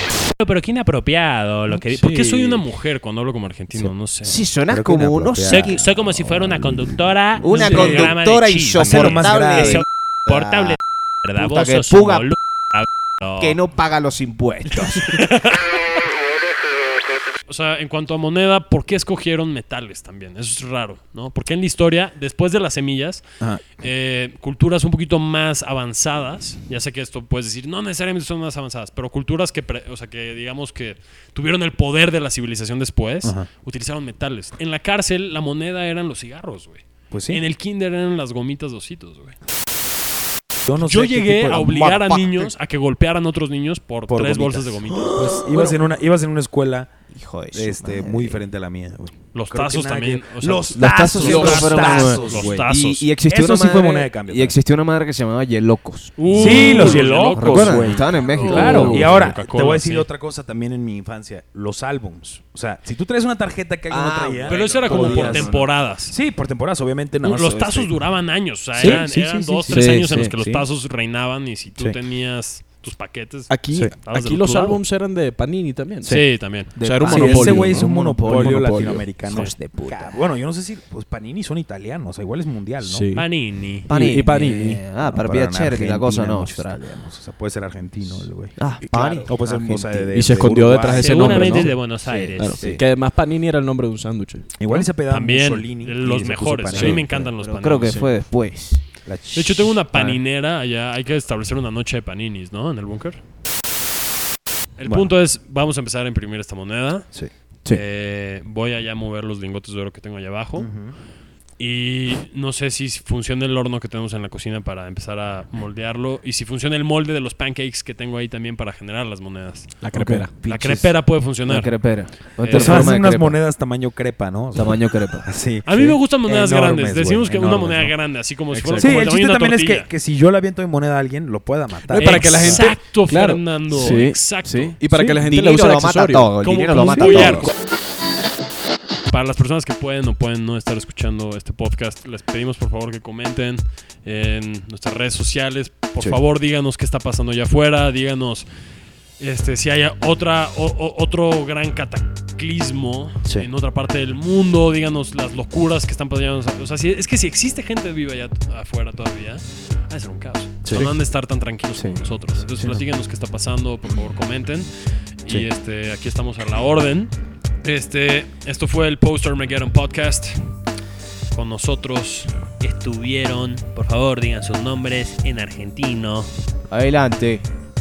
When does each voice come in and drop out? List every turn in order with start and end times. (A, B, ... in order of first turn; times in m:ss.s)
0:00.4-0:04.4 A
0:01.7-0:02.7 B
0:03.8-0:06.0 C
0:04.7-0:05.8 D
0:05.4-0:13.6 A
0:07.4-0:10.8 C
0:07.5-0:08.1 B
0:07.8-0:08.1 D
0:08.8-0:09.9 D
0:11.4-0:12.3 C
0:13.4-0:15.2 C
0:14.7-0:15.7 A
0:17.5-0:39.4 A
0:37.1-0:37.4 D
0:40.7-0:41.7 D
0:40.8-0:45.3 A
0:41.5-0:42.5 C
0:44.1-0:46.9 D
0:44.9-0:45.8 C
0:47.1-0:48.4 C
0:47.5-0:52.7 D
0:49.3-0:53.1 A
0:50.7-0:59.4 C
0:51.2-0:51.7 B
0:53.3-0:54.6 D
0:56.2-1:00.1 A
0:56.3-1:08.0 D
0:56.5-0:59.3 B
1:03.9-1:05.6 C
1:04.5-1:06.2 A
1:07.2-1:14.8 A
1:08.8-1:10.5 D
1:09.7-1:10.7 C
1:13.5-1:19.1 B
1:16.0-1:16.4 D
1:16.0-1:16.7 A
1:16.8-1:18.6 C
1:17.0-1:23.1 D
1:19.2-1:20.3 C
1:19.3-1:19.5 A
1:22.8-1:23.3 B
1:23.1-1:23.9 A
1:23.9-1:26.9 C
1:23.9-1:24.8 B
1:24.9-1:31.8 D
1:28.6-1:30.6 C
1:28.8-1:34.5 B
1:31.0-1:32.7 A
1:32.6-1:32.8 D
1:34.6-1:37.4 D
1:34.7-1:38.1 A
1:36.7-1:37.1 B
1:37.4-1:38.8 C
1:37.8-1:38.1 B
1:39.0-1:39.8 D
1:39.3-1:43.2 A
1:44.8-1:47.1 A
1:44.8-1:45.1 D
1:47.7-1:50.7 A
1:50.6-1:51.0 D
1:51.6-1:59.8 A
1:59.8-2:00.3 B
1:59.9-2:03.4 C
2:00.4-2:01.7 A
2:02.4-2:02.9 A
2:02.5-2:08.0 D
2:04.5-2:05.3 C
2:05.6-2:09.9 A
2:08.5-2:09.1 B
2:08.8-2:12.6 D
2:11.8-2:14.0 B
2:12.0-2:14.8 A
2:13.7-2:17.5 C
2:14.8-2:17.5 B
2:16.5-2:17.5 A
2:19.1-2:28.5 A
2:29.2-2:44.7 A
2:40.6-2:40.9 D
2:41.8-2:42.0 C
2:42.4-2:42.8 D
2:45.2-2:50.6 A
2:51.3-2:56.3 A
2:56.7-2:57.4 C